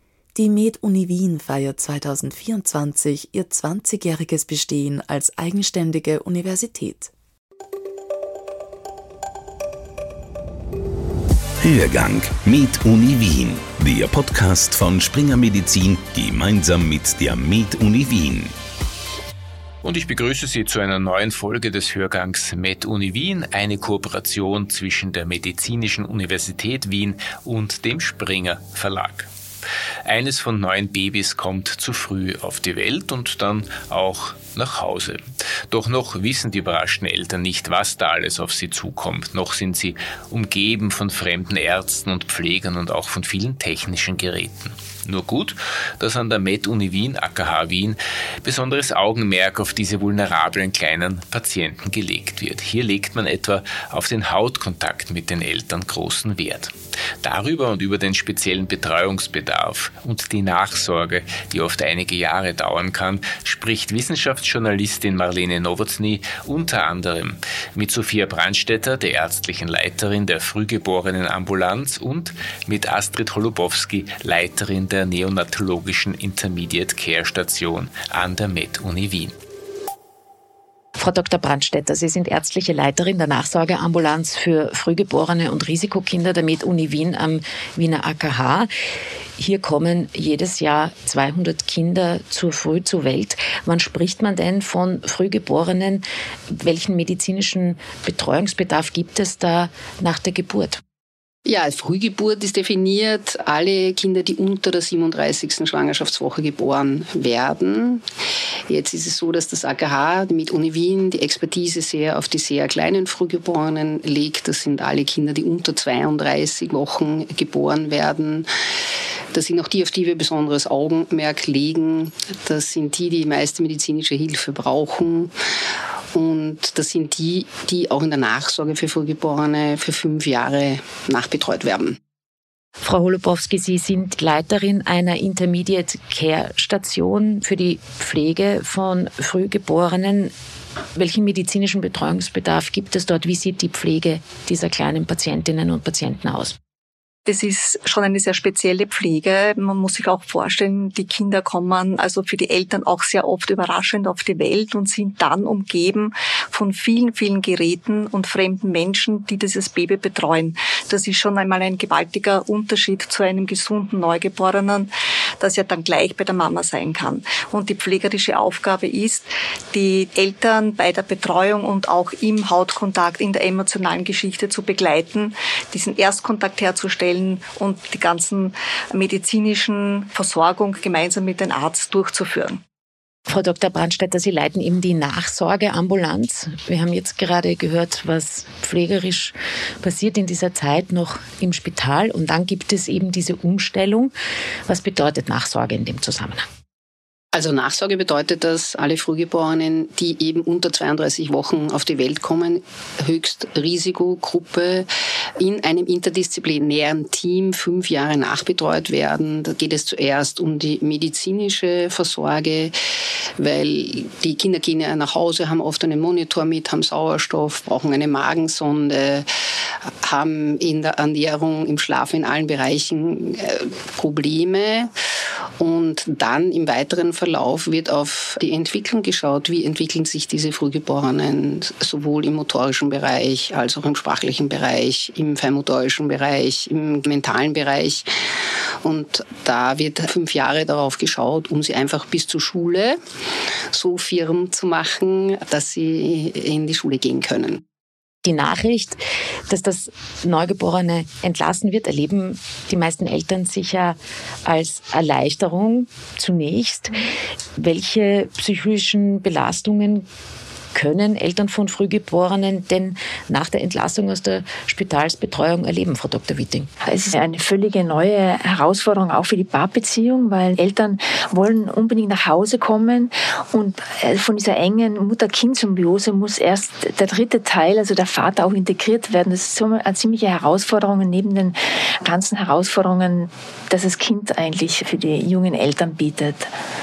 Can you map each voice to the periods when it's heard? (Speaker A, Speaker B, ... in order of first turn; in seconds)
Speaker A: 0.3-7.1
Speaker B: 11.6-18.5
Speaker C: 19.8-29.3, 30.0-79.3
Speaker D: 81.0-88.7, 89.4-100.8, 132.8-140.3, 140.9-146.6, 183.3-194.1, 194.7-196.4, 248.2-256.9, 257.6-260.1, 260.7-266.7
Speaker E: 101.5-108.0, 108.7-118.5, 119.3-125.3, 126.1-132.0, 197.3-204.9, 205.4-212.7, 213.4-219.3, 220.0-224.9, 225.6-238.1, 238.8-243.0, 243.7-247.6
Speaker F: 147.3-182.6
Speaker G: 266.8-286.5